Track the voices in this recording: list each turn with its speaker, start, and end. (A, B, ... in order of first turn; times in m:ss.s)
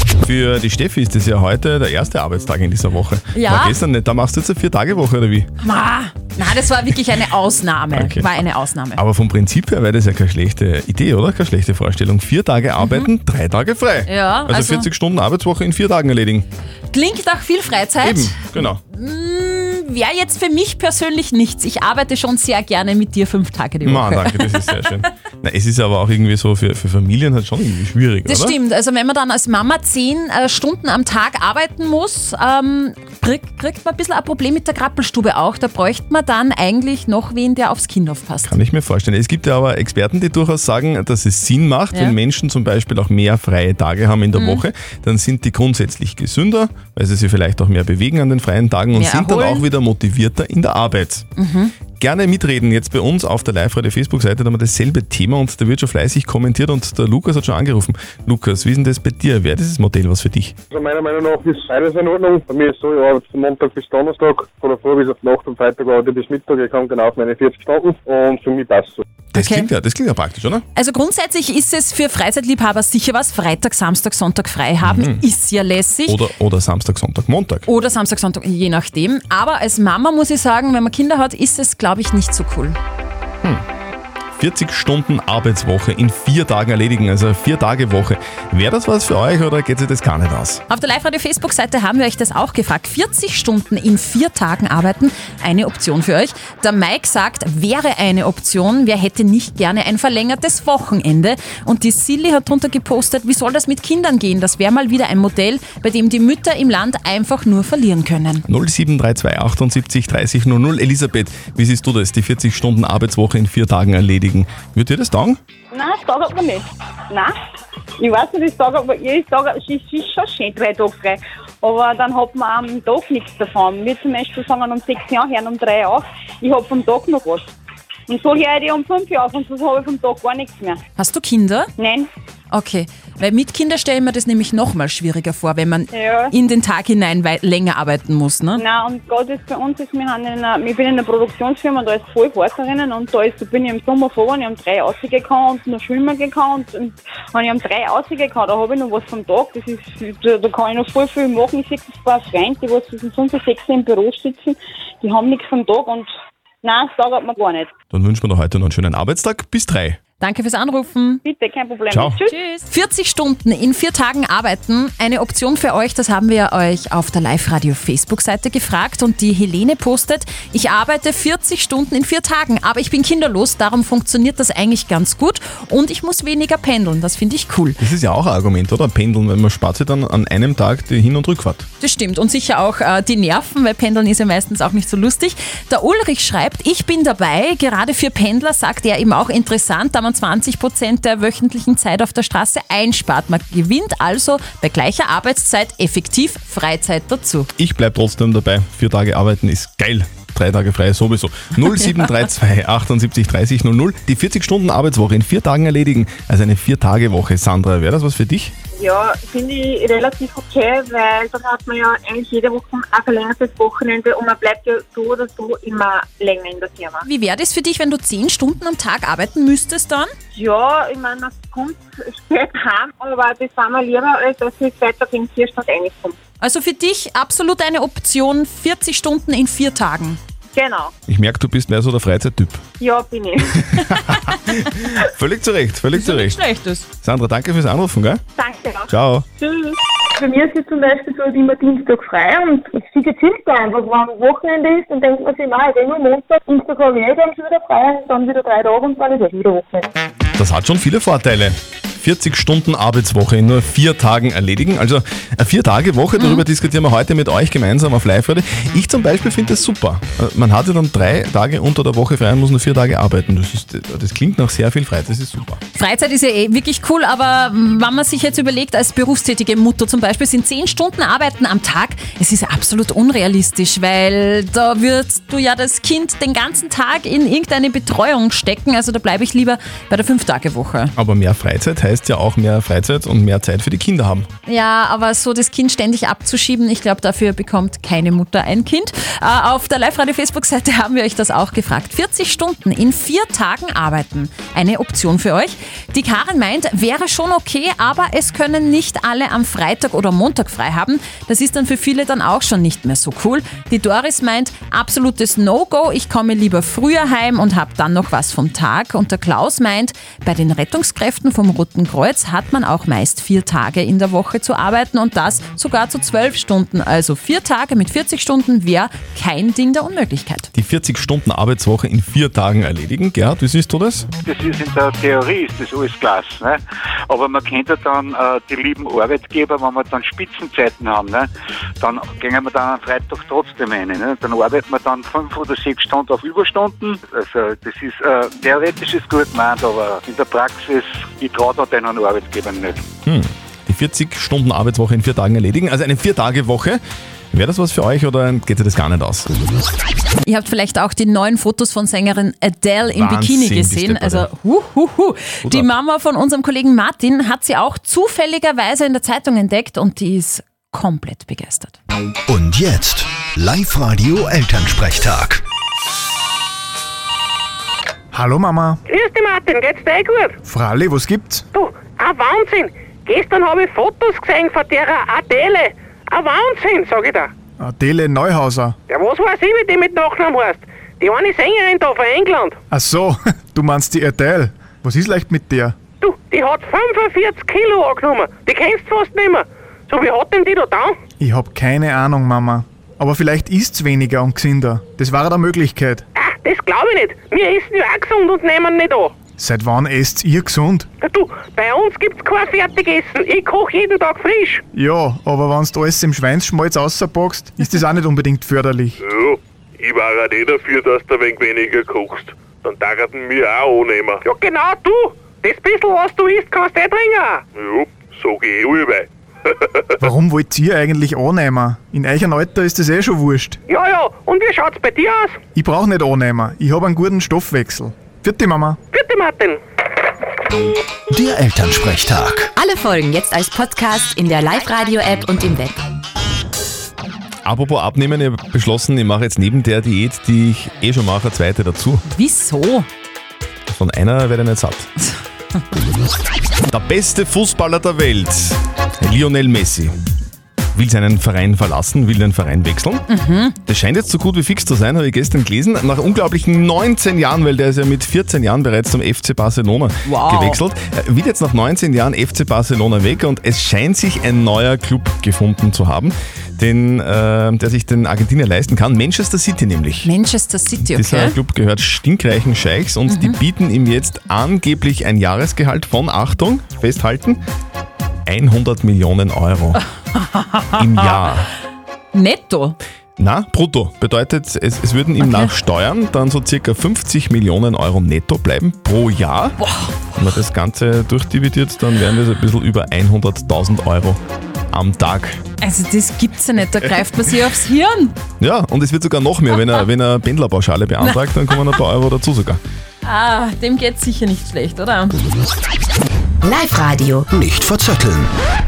0:00.2-0:05.5 A
0:03.3-0:03.8 B
0:05.6-0:09.0 B
0:08.0-0:08.3 A
0:09.0-0:16.4 A
0:12.8-0:13.1 B
0:14.1-0:14.9 B
0:16.9-0:24.8 B
0:18.0-0:18.8 A
0:23.8-0:28.6 A
0:28.3-0:38.5 B
0:38.5-0:51.2 A
0:41.9-0:42.2 B
0:44.3-0:44.6 B
0:48.9-0:49.7 B
0:51.4-0:51.7 B
0:52.0-1:00.5 A
1:00.7-1:09.0 C
1:09.3-1:09.7 B
1:09.3-1:10.6 A
1:10.8-1:16.2 B
1:14.8-1:15.2 A
1:16.1-1:17.6 A
1:17.7-1:22.8 B
1:24.4-1:30.6 A
1:30.7-1:48.4 B
1:48.5-1:55.4 A
1:55.7-1:57.3 D
1:58.0-2:07.5 D
2:08.1-2:10.8 D
2:11.0-2:11.7 B
2:11.8-2:12.1 D
2:12.5-2:18.6 B
2:15.9-2:16.3 D
2:18.6-2:36.1 D
2:36.6-2:37.7 D
2:37.9-2:40.0 A
2:40.2-2:41.2 B
2:41.2-2:42.5 D
2:42.3-2:57.8 B
2:57.8-3:01.6 A
3:01.8-3:17.5 B
3:17.6-3:28.5 A
3:28.8-3:37.0 E
3:37.0-3:40.1 B
3:40.4-3:46.2 E
3:46.4-3:50.2 B
3:50.6-3:50.9 D
3:51.1-3:52.6 A
3:52.8-3:53.8 D
3:54.3-3:56.4 A
3:55.9-3:56.9 B
3:57.0-3:58.2 A
3:58.4-3:59.8 D
3:58.9-3:59.3 A
4:00.2-4:09.9 F
4:10.4-4:25.6 A
4:16.2-4:16.5 B
4:25.8-4:40.9 B
4:41.0-4:44.2 A
4:44.4-5:20.5 B
5:20.6-5:24.1 A
5:24.2-5:31.3 G
5:31.8-5:42.8 G
5:43.1-5:46.8 A
5:47.3-5:49.3 A
5:50.2-6:01.8 B
5:53.0-5:54.3 A
6:02.3-6:05.4 H
6:08.1-6:08.8 I
6:08.9-6:10.4 J
6:10.4-6:11.4 I
6:11.5-6:17.3 J
6:17.6-6:18.8 I
6:18.9-6:22.6 J
6:22.7-6:25.8 I
6:26.0-6:31.0 J
6:31.2-6:36.0 I
6:36.2-6:39.1 J
6:39.4-6:40.9 I
6:41.0-6:44.6 J
6:44.8-6:49.0 I
6:49.1-6:54.2 K
6:54.2-6:57.4 J
6:57.6-6:59.0 K
7:00.0-7:03.6 I
7:03.7-7:05.4 J
7:05.6-7:08.8 I
7:08.9-7:09.6 J
7:11.1-7:12.5 H
7:12.6-7:15.8 L
7:17.5-7:22.0 A
7:22.1-7:22.9 B
7:23.7-7:24.9 A
7:26.7-7:29.9 A
7:30.8-7:33.0 A
7:33.1-7:33.6 B
7:33.7-7:50.1 A
7:40.0-7:40.6 B
7:50.0-7:51.4 B
7:50.9-7:57.4 A
7:53.1-7:53.4 B
7:58.3-7:59.8 A
8:00.3-8:00.7 B
8:00.8-8:01.5 A
8:02.1-8:02.8 B
8:03.2-8:09.6 A
8:05.2-8:05.6 B
8:09.6-8:10.0 B
8:10.2-8:14.2 A
8:14.7-8:15.4 A
8:15.6-8:18.2 B
8:18.4-8:22.6 A
8:21.0-8:21.6 B
8:23.0-8:25.2 B
8:26.4-8:27.3 L
8:27.3-8:28.3 H